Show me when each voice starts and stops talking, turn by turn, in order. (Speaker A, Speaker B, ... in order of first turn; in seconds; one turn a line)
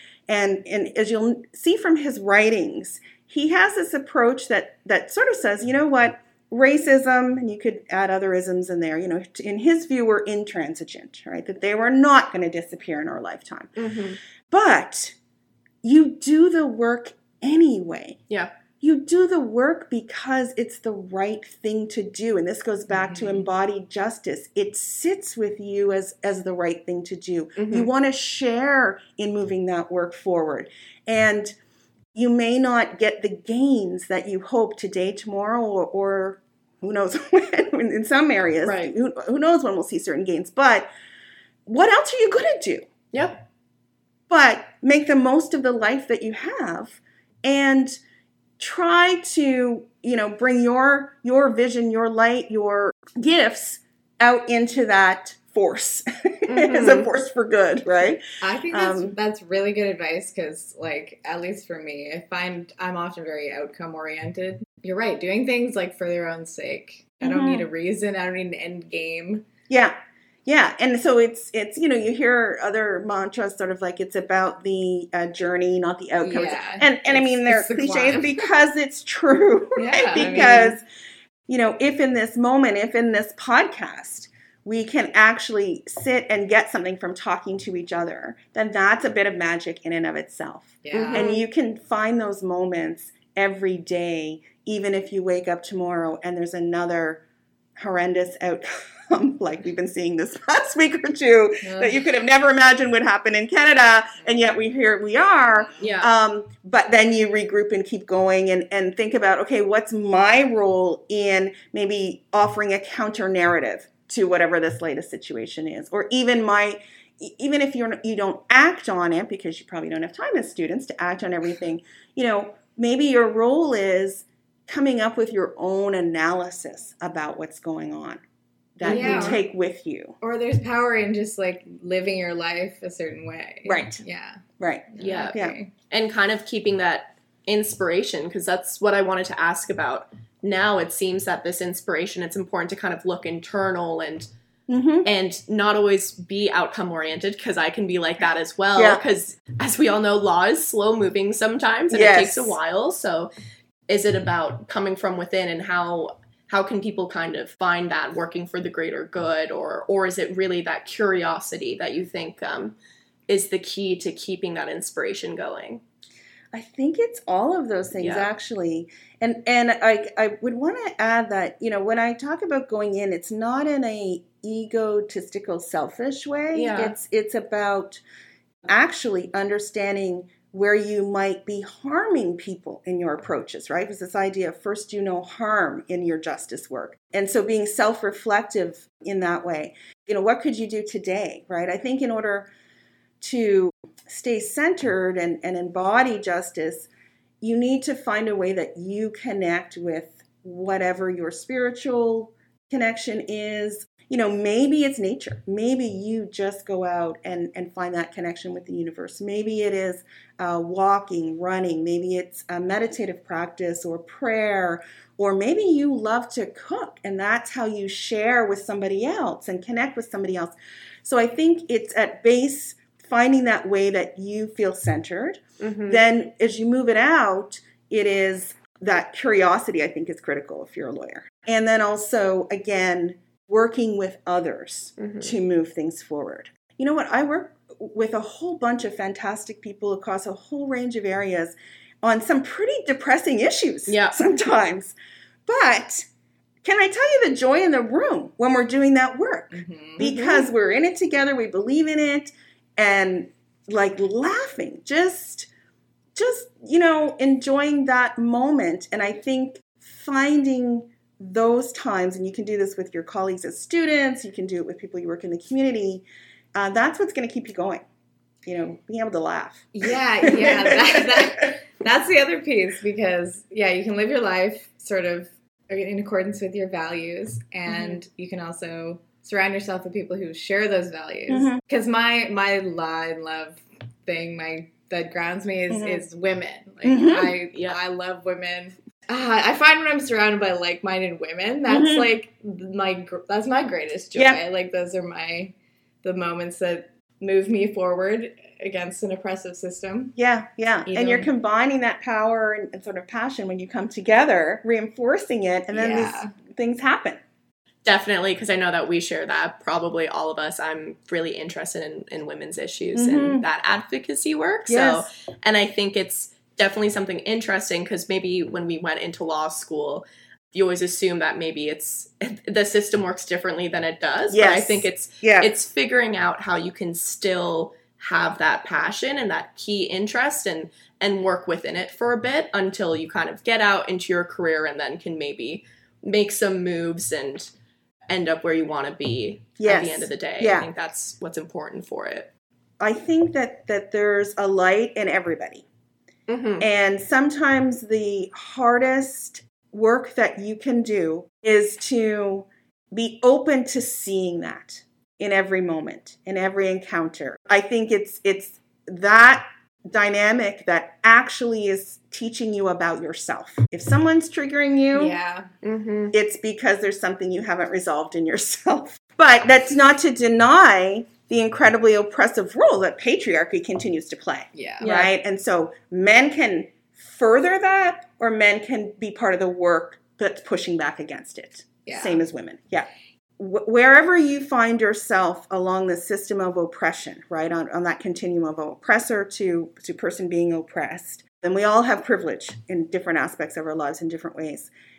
Speaker A: 0.3-13.7
Speaker B: 13.8-14.2
Speaker A: 14.5-15.2
Speaker A: 15.8-18.2
Speaker A: 18.8-31.5
Speaker B: 27.6-27.9
Speaker A: 32.1-40.9
Speaker B: 38.6-38.9
Speaker A: 41.7-42.9
Speaker B: 43.1-43.4
Speaker A: 44.3-48.0
Speaker A: 48.6-59.1
Speaker B: 56.5-57.1
Speaker C: 58.4-69.4
Speaker A: 67.2-67.7
Speaker A: 69.7-69.9
Speaker A: 70.5-80.8
Speaker C: 76.2-78.4
Speaker C: 79.8-80.8
Speaker A: 81.5-97.2
Speaker C: 90.8-91.2
Speaker B: 90.9-91.4
Speaker A: 97.8-128.2
Speaker C: 101.6-102.0
Speaker B: 105.8-106.1
Speaker A: 128.8-130.2
Speaker C: 128.8-129.4
Speaker B: 128.8-129.4
Speaker C: 130.2-135.7
Speaker A: 133.7-134.0
Speaker A: 134.6-135.6
Speaker B: 135.0-135.4
Speaker B: 135.9-144.3
Speaker A: 144.7-145.1
Speaker B: 145.0-153.3
Speaker A: 148.7-149.0
Speaker A: 151.9-152.6
Speaker B: 153.9-162.8
Speaker B: 163.3-165.8
Speaker A: 166.5-178.0
Speaker B: 168.0-168.2
Speaker B: 176.5-176.9
Speaker A: 178.7-192.5
Speaker A: 193.2-196.9
Speaker A: 197.4-244.9
Speaker B: 225.6-226.0
Speaker B: 235.0-235.3
Speaker B: 243.9-244.2
Speaker A: 245.5-246.1
Speaker A: 246.6-255.5
Speaker C: 249.5-250.4
Speaker A: 256.1-267.8
Speaker A: 268.4-271.3
Speaker C: 269.7-300.1
Speaker A: 277.7-278.0
Speaker A: 281.3-281.6
Speaker A: 285.7-286.0
Speaker A: 286.8-287.3
Speaker A: 291.7-292.1
Speaker A: 300.2-307.2
Speaker C: 300.9-301.3
Speaker C: 305.7-306.3
Speaker B: 307.8-337.5
Speaker A: 312.9-313.4
Speaker A: 314.7-315.1
Speaker A: 324.3-325.5
Speaker B: 338.1-342.3
Speaker A: 339.6-340.7
Speaker A: 342.8-345.7
Speaker B: 346.3-346.6
Speaker A: 346.6-365.2
Speaker C: 364.9-365.5
Speaker B: 365.6-366.1
Speaker A: 366.1-394.7
Speaker C: 374.5-374.9
Speaker B: 374.8-375.1
Speaker C: 381.9-382.2